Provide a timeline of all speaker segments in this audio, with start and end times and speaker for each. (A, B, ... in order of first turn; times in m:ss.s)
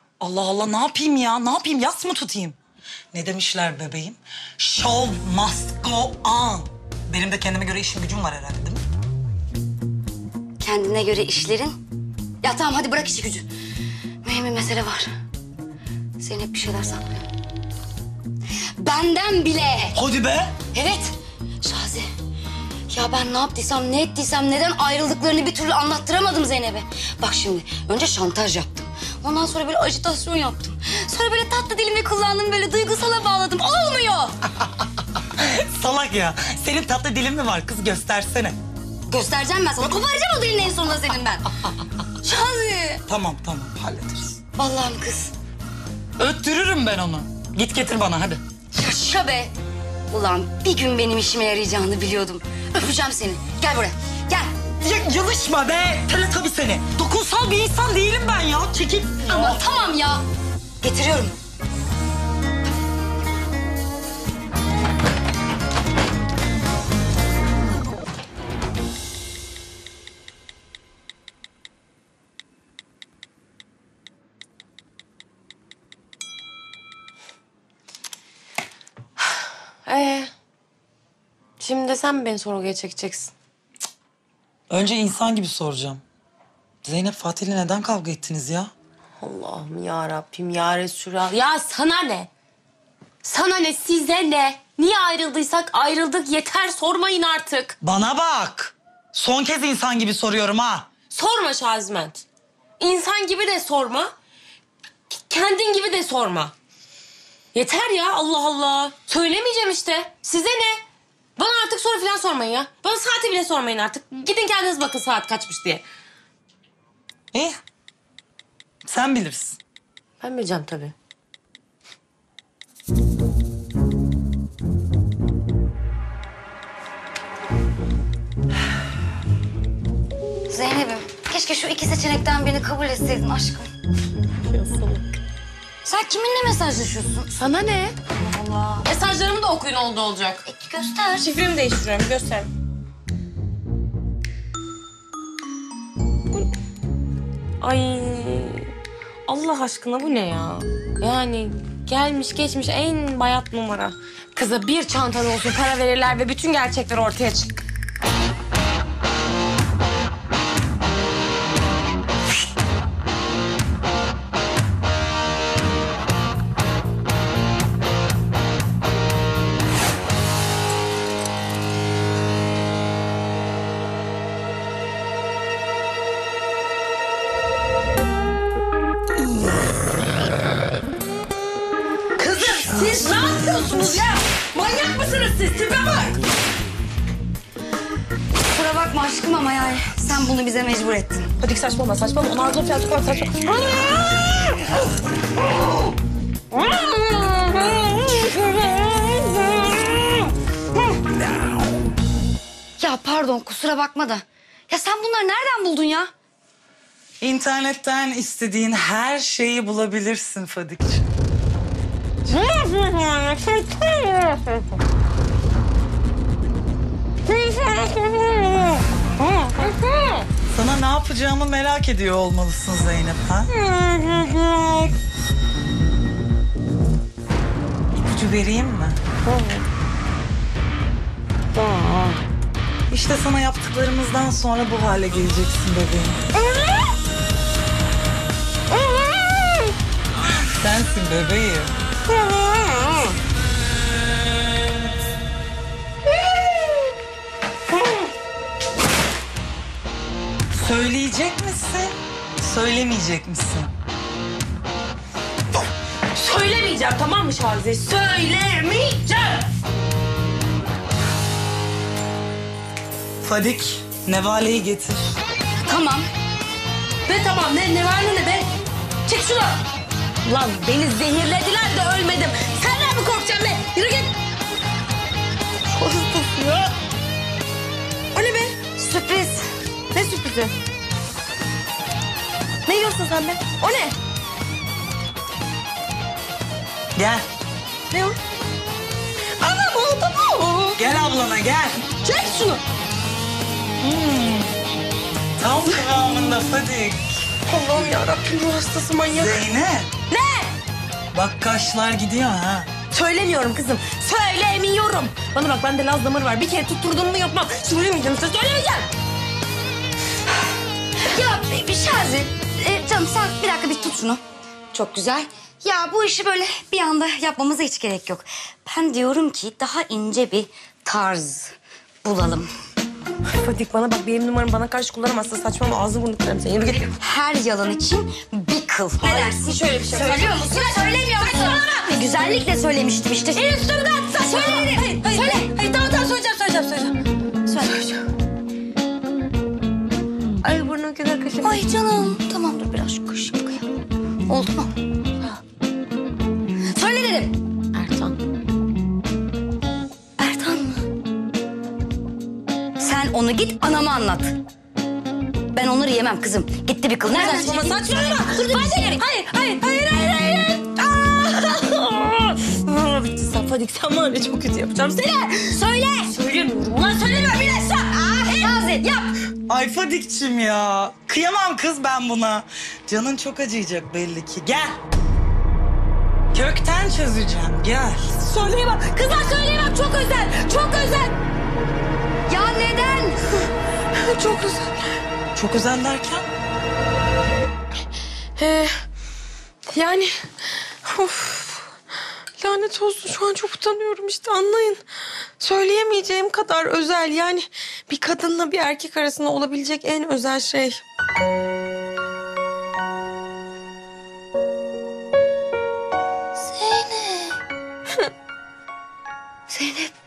0:00.2-0:02.6 A
0:03.1-0:08.8 A
0:10.6-0:11.8 B
0:12.4-0:13.5 B
0:14.2-0:15.1 B
0:16.2-0:17.3 B
0:18.8-0:20.0 B
0:19.9-0:20.6 A
0:20.6-0:22.1 B
0:22.9-0:34.4 B
0:35.4-0:38.6 A
0:39.1-0:41.5 B
0:42.2-0:43.0 B
0:43.1-0:44.4 A
0:44.6-0:45.3 B
0:46.2-0:48.4 A
0:48.7-0:49.5 B
0:50.1-0:54.5 B
0:54.8-0:59.6 A
0:59.3-1:00.2 B
1:00.8-1:01.4 B
1:19.2-1:20.3 C
1:21.6-1:23.3 C
1:24.7-1:26.0 A
1:26.8-1:28.7 A
1:29.2-1:32.3 C
1:33.2-1:37.8 C
1:37.8-1:40.9 A
1:41.1-1:42.2 C
1:42.8-1:44.1 C
1:45.1-1:46.5 C
1:47.5-1:50.8 C
1:51.4-1:55.8 C
1:57.3-1:57.6 A
1:58.8-1:59.6 A
2:00.2-2:00.9 C
2:10.5-2:13.7 B
2:14.4-2:15.1 C
2:15.8-2:17.5 B
2:17.3-2:18.0 C
2:18.2-2:18.8 B
2:18.8-2:20.4 C
2:20.5-2:21.3 B
2:21.1-2:22.5 C
2:27.6-2:28.7 C
2:29.2-2:37.5 C
3:02.2-3:06.2 C
3:08.4-3:11.3 B
3:11.4-3:14.6 C
3:16.5-3:20.1 C
3:22.8-3:26.1 B
3:27.2-3:31.1 A
3:32.3-3:34.6 C
3:37.3-3:40.2 C
3:40.5-3:43.5 A
3:43.5-3:44.9 C
3:47.9-3:49.0 A
3:49.3-3:49.6 C
3:51.6-3:52.2 C
3:52.9-3:56.2 A
3:56.4-3:56.7 C
4:00.6-4:01.7 A
4:02.3-4:03.0 C
4:07.7-4:08.0 C
4:10.5-4:13.7 A
4:16.1-4:19.5 C
4:23.2-4:25.2 A
4:25.6-4:26.1 B
4:27.0-4:28.5 C
4:29.0-4:29.6 C
4:30.2-4:34.1 C
4:35.7-4:36.7 C
4:38.1-4:38.6 C
4:38.8-4:39.5 B
4:39.9-4:40.5 C
4:42.6-4:43.9 C
4:47.0-4:47.2 A
4:47.9-4:48.2 C
4:49.4-4:50.8 C
4:50.8-4:51.8 A
4:52.0-4:52.6 C
4:53.8-4:54.6 A
4:55.4-4:57.2 A
4:57.4-4:59.4 C
4:59.0-4:59.9 A
5:00.1-5:00.5 C
5:01.1-5:02.7 A
5:02.9-5:08.9 C
5:11.1-5:14.2 B
5:14.7-5:22.5 B
5:23.3-5:26.9 C
5:27.0-5:33.4 B
5:29.0-5:31.8 C
5:33.3-5:38.0 C
5:34.1-5:35.5 B
5:40.4-5:41.7 C
5:41.4-5:43.7 B
5:44.3-5:44.7 B
5:46.7-5:47.3 B
5:47.7-5:48.2 C
5:50.2-5:50.8 B
5:52.8-5:54.3 B
5:55.5-5:59.0 B
5:57.1-6:08.6 C
6:05.4-6:06.1 B
6:08.1-6:09.1 B
6:09.5-6:14.8 A
6:16.3-6:18.1 A
6:18.2-6:21.1 C
6:22.3-6:23.2 B
6:23.9-6:24.9 C
6:25.3-6:26.3 A
6:28.4-6:28.7 C
6:29.7-6:30.1 C
6:30.8-6:31.7 C
6:32.4-6:34.8 C
6:35.4-6:40.8 C
6:46.4-6:47.4 C
6:49.5-6:49.9 B